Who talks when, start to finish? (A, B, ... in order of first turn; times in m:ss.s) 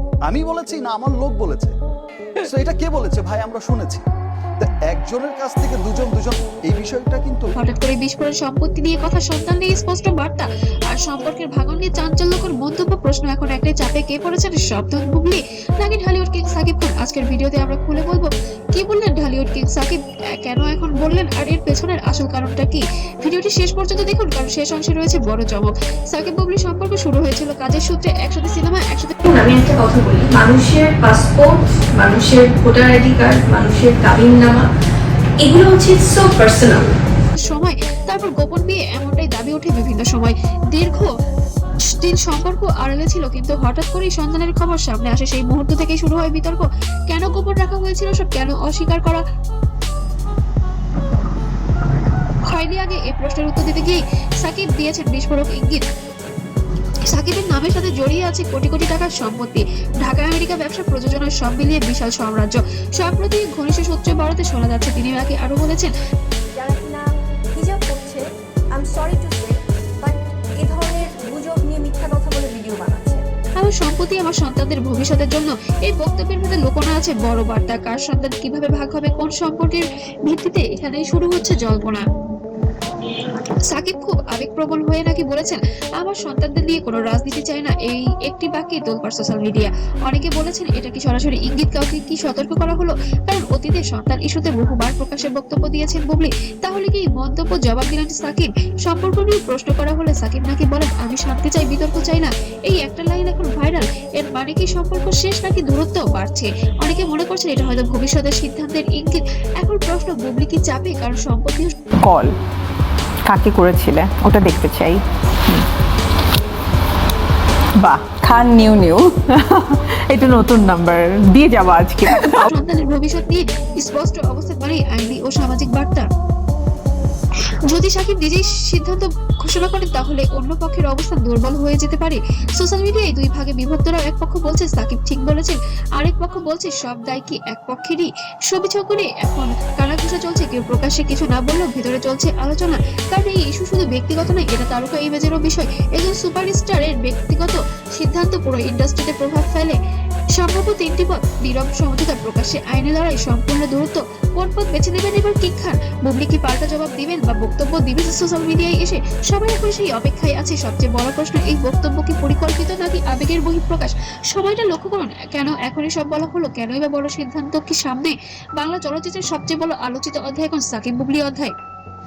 0:00.3-0:01.7 A
0:02.4-0:04.0 A
0:04.6-0:07.4 A
0:07.6-0:29.1 B
0:29.2-0:34.7 C
0:35.4-0:36.9 C
0:37.5-0:41.1 B
0:41.9-0:49.2 B
0:52.5-0:55.8 B
0:57.1-1:05.9 B
1:06.5-1:13.3 D
1:13.6-1:22.0 B
1:23.7-1:51.7 B
1:52.0-1:52.4 E
1:53.2-1:55.7 E
1:57.8-2:02.5 E
2:02.1-2:06.1 B
2:07.7-2:29.8 B
2:30.4-2:51.5 B